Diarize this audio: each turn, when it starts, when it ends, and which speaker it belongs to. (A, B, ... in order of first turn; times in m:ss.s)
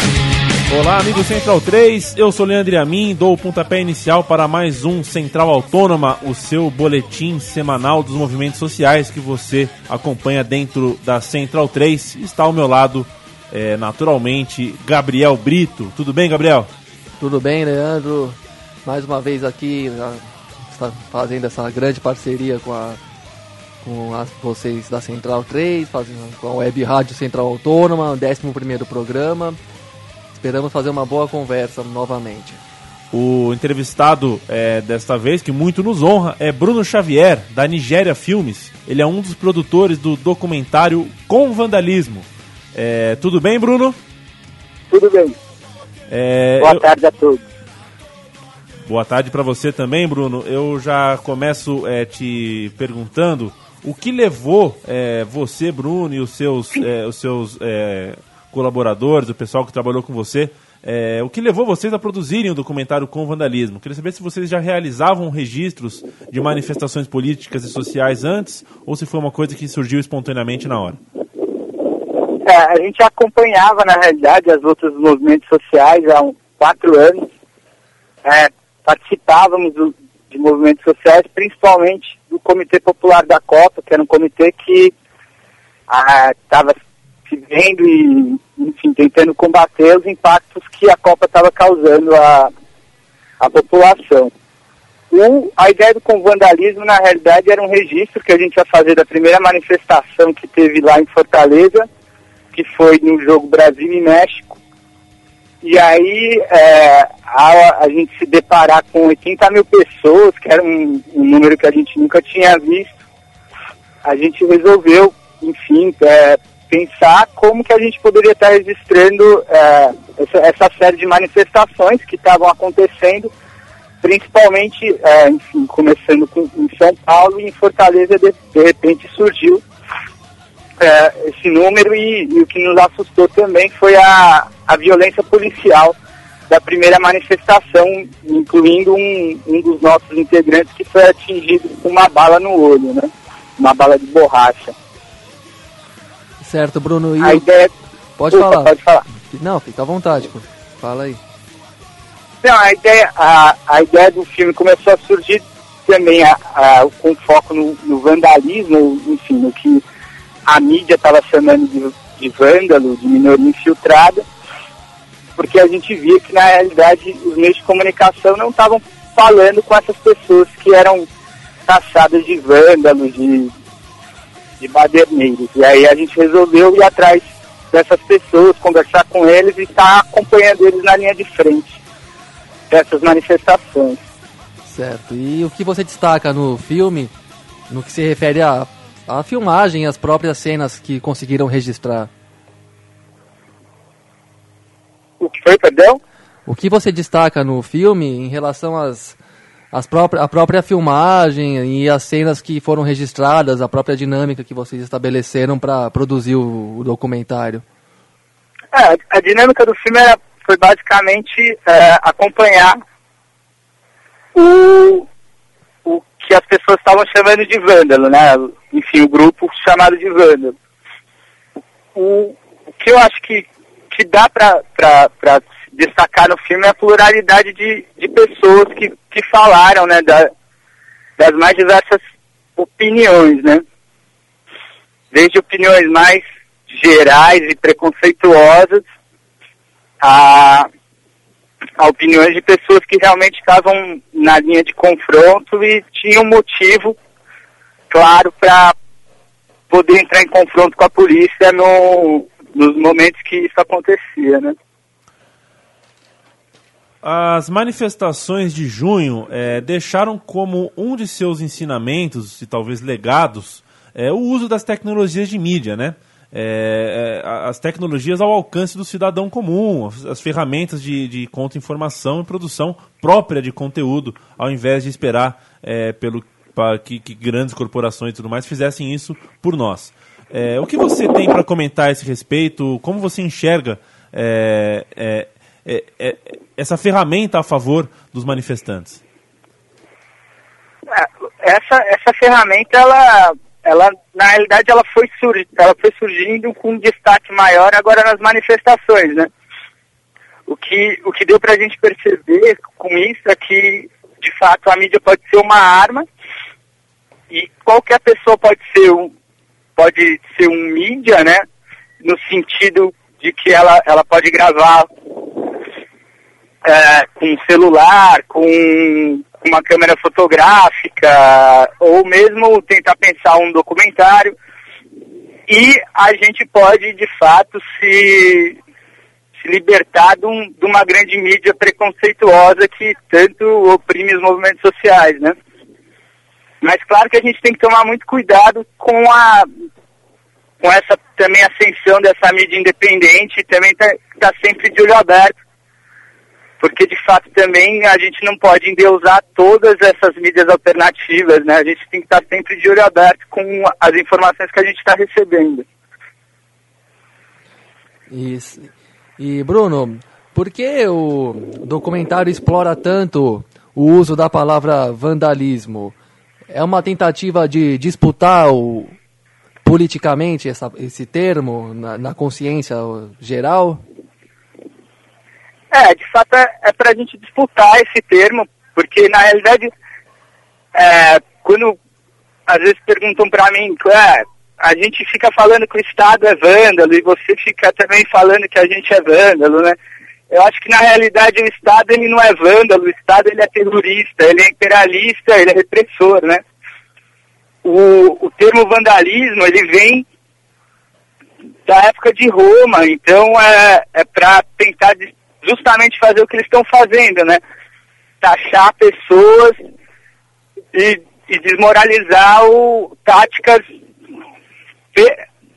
0:00.7-0:16.7 A
0:17.2-0:23.0 B
0:23.8-0:29.6 B
0:30.3-0:32.6 B
0:33.1-0:44.0 A
0:44.9-0:45.4 C
0:46.1-0:46.9 A
0:46.6-0:47.4 C
0:48.8-1:11.0 A
1:12.4-1:17.3 C
1:18.2-1:24.9 C
1:25.9-1:26.7 C
1:27.3-1:32.5 C
1:33.4-1:34.3 C
1:35.1-1:41.9 C
1:42.5-1:44.6 C
1:45.6-1:52.9 C
1:54.0-2:03.3 C
2:04.0-2:09.6 C
2:10.8-2:16.0 C
2:16.5-2:24.7 C
2:26.4-2:27.5 B
2:27.2-2:27.7 C
2:28.2-2:31.2 B
2:28.3-2:29.0 C
2:32.4-2:39.8 C
2:40.5-2:44.2 C
2:45.4-2:51.0 C
2:51.7-2:53.5 C
2:54.6-3:01.8 C
3:02.7-3:04.0 C
3:04.7-3:07.1 B
3:07.7-3:12.1 B
3:15.2-3:16.0 C
3:16.4-3:19.2 B
3:19.7-3:27.6 B
3:28.7-3:32.8 C
3:34.3-3:35.0 C
3:35.8-3:40.5 C
3:41.9-3:50.3 C
3:51.2-3:52.0 C
3:52.6-3:53.6 C
3:55.1-3:58.8 C
4:00.0-4:00.7 C
4:01.8-4:07.0 C
4:07.9-4:08.7 C
4:09.7-4:14.5 C
4:17.0-4:49.0 A
4:50.9-4:59.3 C
5:00.5-5:06.0 C
5:07.3-5:09.1 C
5:09.8-5:11.4 C
5:12.0-5:14.9 C
5:16.6-5:24.4 C
5:25.5-5:28.6 C
5:29.4-5:35.3 C
5:36.6-5:39.5 C
5:40.6-5:45.3 C
5:46.6-5:55.6 C
5:58.1-6:05.9 B
6:06.5-6:09.0 B
6:09.6-6:13.8 B
6:15.7-6:19.7 C
6:20.7-6:21.8 C
6:22.5-6:29.8 C
6:30.3-6:36.4 C
6:37.6-6:40.0 C
6:41.7-6:47.4 C
6:48.2-6:49.6 C
6:50.7-6:53.6 C